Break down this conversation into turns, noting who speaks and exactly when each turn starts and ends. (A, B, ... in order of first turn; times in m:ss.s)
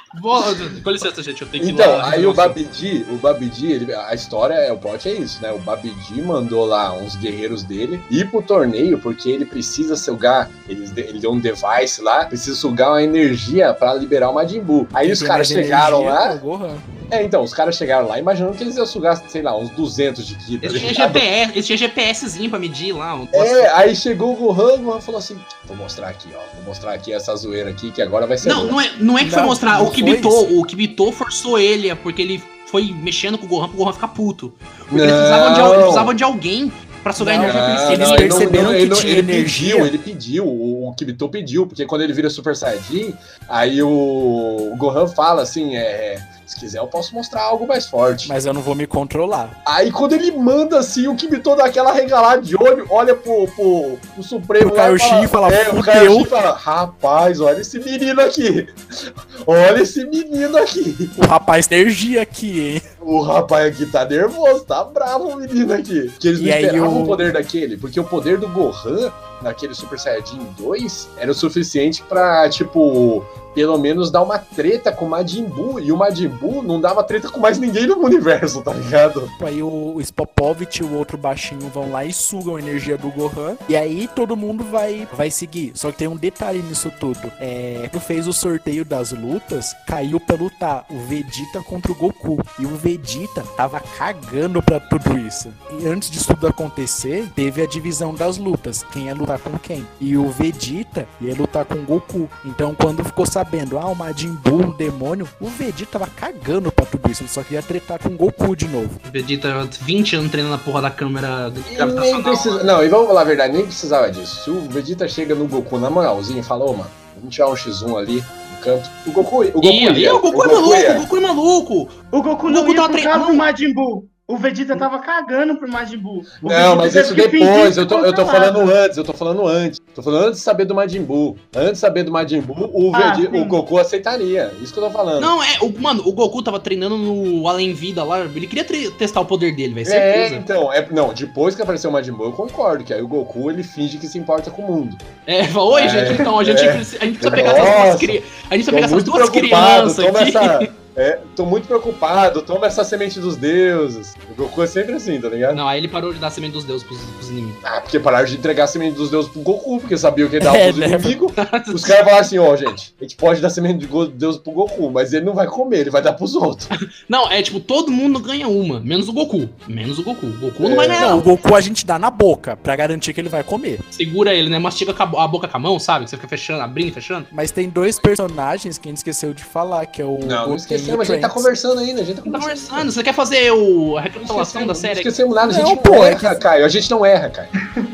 0:00.1-0:02.6 A
0:01.6-0:16.4 B
0:15.0-0:16.8 C
0:17.1-0:21.2 B
0:20.6-0:23.7 A
0:23.3-0:28.8 B
0:28.4-0:38.6 A
0:29.2-0:30.5 C
0:34.9-0:36.1 B
0:37.2-0:39.9 C
0:37.4-0:48.3 B
0:48.2-0:49.6 C
0:49.6-1:01.2 B
0:54.6-0:56.3 C
1:01.2-1:02.8 C
1:03.0-1:19.3 B
1:06.4-1:07.3 C
1:19.4-1:49.0 C
1:49.0-1:52.7 A
1:51.7-2:01.1 B
1:59.6-2:02.0 A
2:02.1-2:08.7 D
2:02.5-2:03.4 A
2:06.4-2:15.3 B
2:12.9-2:13.6 D
2:15.2-2:20.4 A
2:19.8-2:25.0 B
2:25.3-2:30.7 A
2:25.7-2:35.6 B
2:35.5-2:37.6 A
2:37.6-2:46.7 B
2:40.4-2:41.2 C
2:41.4-2:42.2 A
2:46.8-2:51.3 A
2:50.6-2:51.2 B
2:51.0-2:53.8 C
2:53.9-2:57.3 A
2:57.3-3:01.5 C
3:00.2-3:02.9 B
3:02.2-3:05.1 A
3:04.2-3:07.5 B
3:05.4-3:06.4 C